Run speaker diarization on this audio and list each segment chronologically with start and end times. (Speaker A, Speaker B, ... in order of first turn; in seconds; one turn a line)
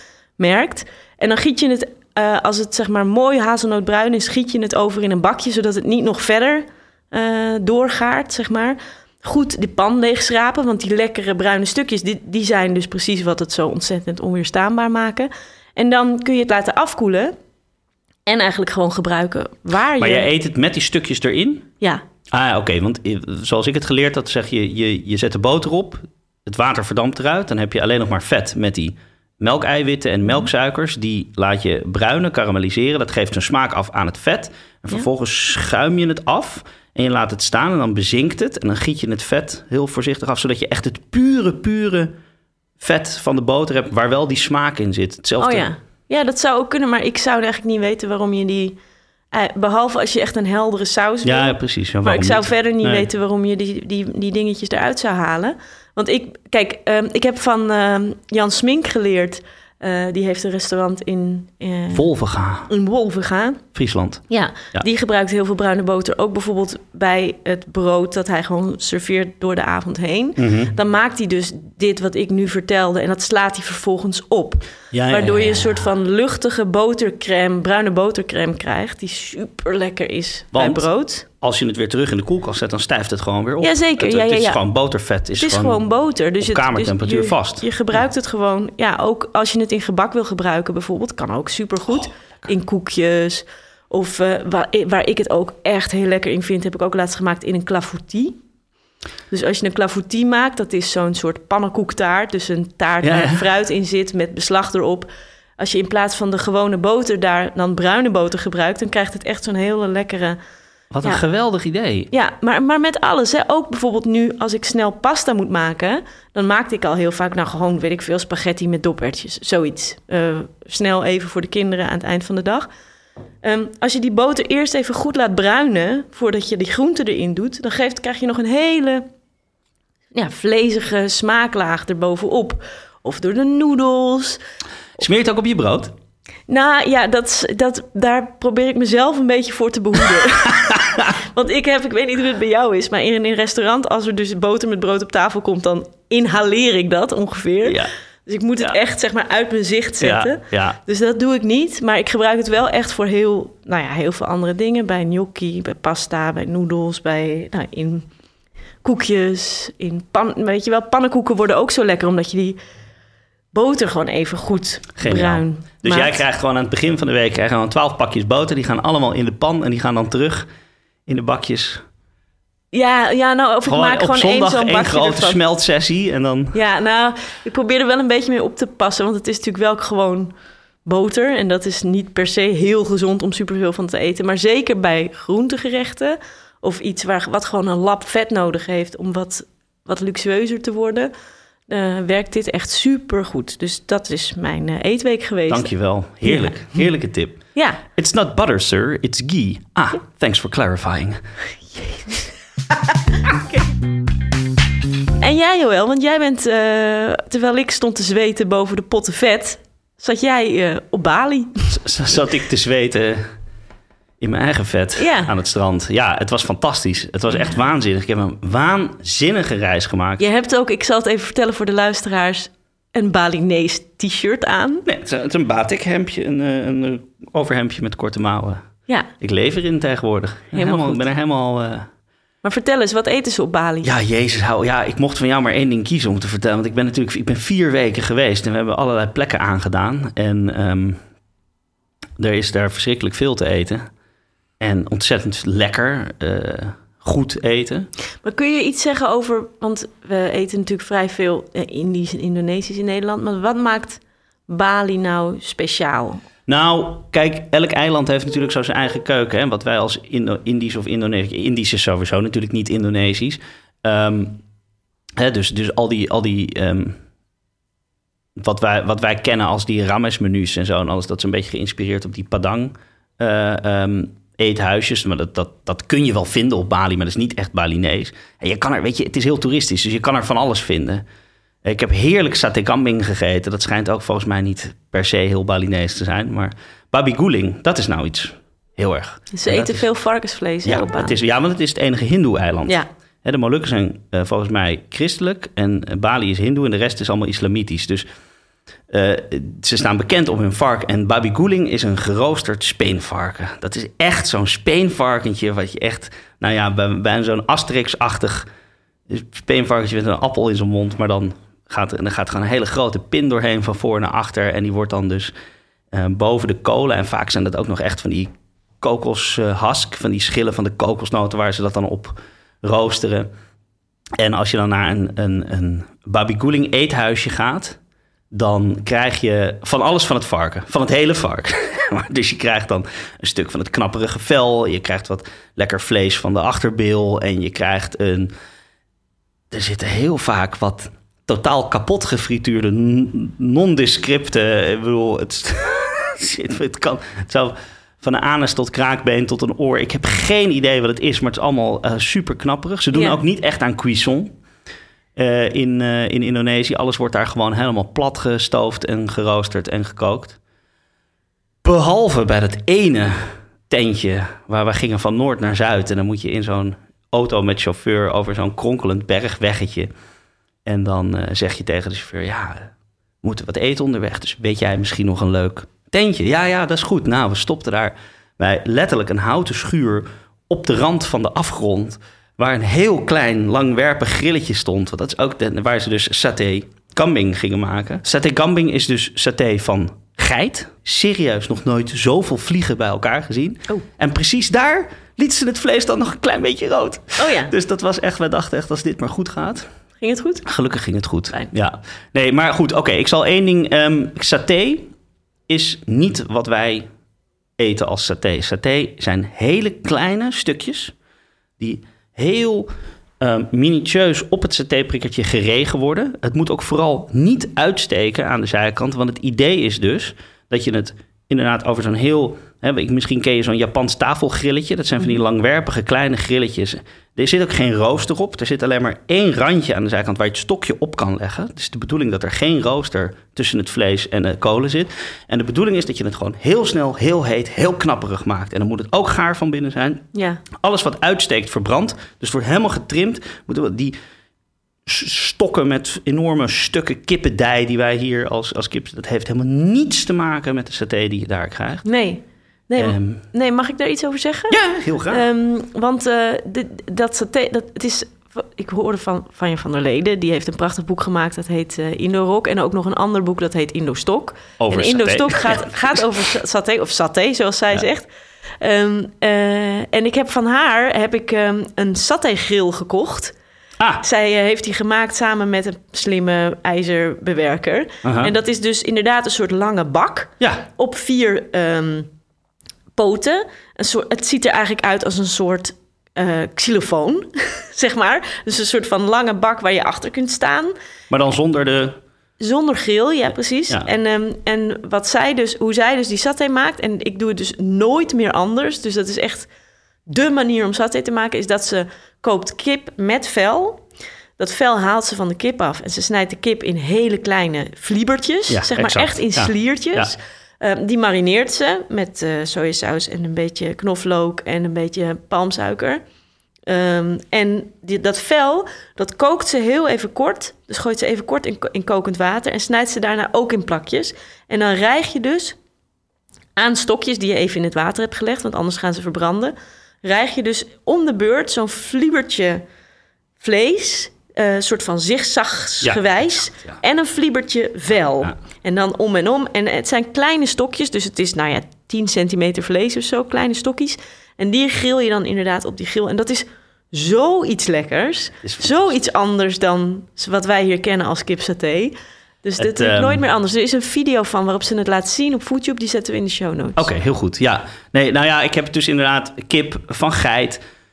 Speaker A: 0.4-17.4
Speaker A: 18.3-20.3
Speaker B: 20.0-21.7
Speaker B: 22.3-42.2
Speaker B: 42.8-45.7
Speaker A: 45.4-48.8
Speaker A: 49.3-62.1
Speaker B: 51.2-53.1
Speaker B: 61.9-62.7
Speaker A: 62.7-63.6
Speaker B: 63.7-64.9
Speaker A: 64.3-81.2
Speaker B: 70.4-70.7
Speaker B: 74.9-75.8
Speaker B: 80.5-85.8
Speaker A: 83.6-84.6
Speaker A: 85.4-98.4
Speaker B: 86.4-87.7
Speaker A: 99.3-110.4
Speaker B: 103.0-103.5
Speaker B: 110.9-112.1
Speaker A: 112.1-122.7
Speaker A: 123.4-129.1
Speaker A: 130.1-134.4
Speaker B: 135.0-135.9
Speaker A: 136.5-158.1
Speaker B: 140.7-141.1
Speaker B: 147.6-147.9
Speaker B: 150.0-150.8
Speaker A: 158.8-162.6
Speaker A: 163.5-166.2
Speaker B: 165.0-170.5
Speaker B: 171.1-171.8
Speaker A: 172.7-175.4
Speaker B: 173.7-176.6
Speaker A: 176.5-180.3
Speaker A: 180.8-191.1
Speaker A: 191.7-195.7
Speaker B: 195.5-201.2
Speaker A: 196.2-196.9
Speaker A: 197.6-197.8
Speaker A: 205.2-211.7
Speaker B: 211.7-213.4
Speaker B: 214.2-220.2
Speaker A: 215.0-215.3
Speaker A: 220.2-224.8
Speaker B: 224.9-231.9
Speaker A: 230.5-231.1
Speaker A: 232.4-233.9
Speaker B: 233.8-241.0
Speaker B: 242.2-243.9
Speaker B: 244.6-247.9
Speaker A: 248.2-256.2
Speaker B: 256.5-264.4
Speaker B: 265.2-267.0
Speaker B: 268.4-281.1
Speaker B: 281.6-289.9
Speaker A: 289.3-291.2
Speaker B: 290.6-298.1
Speaker B: 298.9-308.5
Speaker B: 309.1-315.3
Speaker B: 315.9-323.3
Speaker B: 324.2-327.8
Speaker B: 328.3-338.3
Speaker B: 339.5-354.4
Speaker A: 352.9-353.2
Speaker B: 355.2-360.4
Speaker B: 361.6-369.9
Speaker B: 370.7-399.7
Speaker A: 397.2-397.5
Speaker A: 400.0-400.4
Speaker B: 400.4-404.9
Speaker B: 405.5-406.9
Speaker B: 407.6-410.9
Speaker B: 411.6-444.0
Speaker A: 440.1-440.4
Speaker B: 444.9-451.9
Speaker A: 451.9-468.1
Speaker B: 452.8-453.2
Speaker B: 454.5-455.2
Speaker B: 464.6-465.7
Speaker A: 468.6-473.3
Speaker A: 474.0-482.1
Speaker B: 478.0-478.3
Speaker A: 483.0-490.7
Speaker B: 491.1-492.0
Speaker A: 492.4-499.5
Speaker A: 500.1-503.8
Speaker A: 504.4-516.0
Speaker B: 508.5-510.1
Speaker A: 516.7-525.6
Speaker A: 526.6-532.6
Speaker A: 533.4-556.9
Speaker B: 535.8-536.8
Speaker B: 548.4-549.0
Speaker B: 552.6-553.2
Speaker B: 556.8-560.6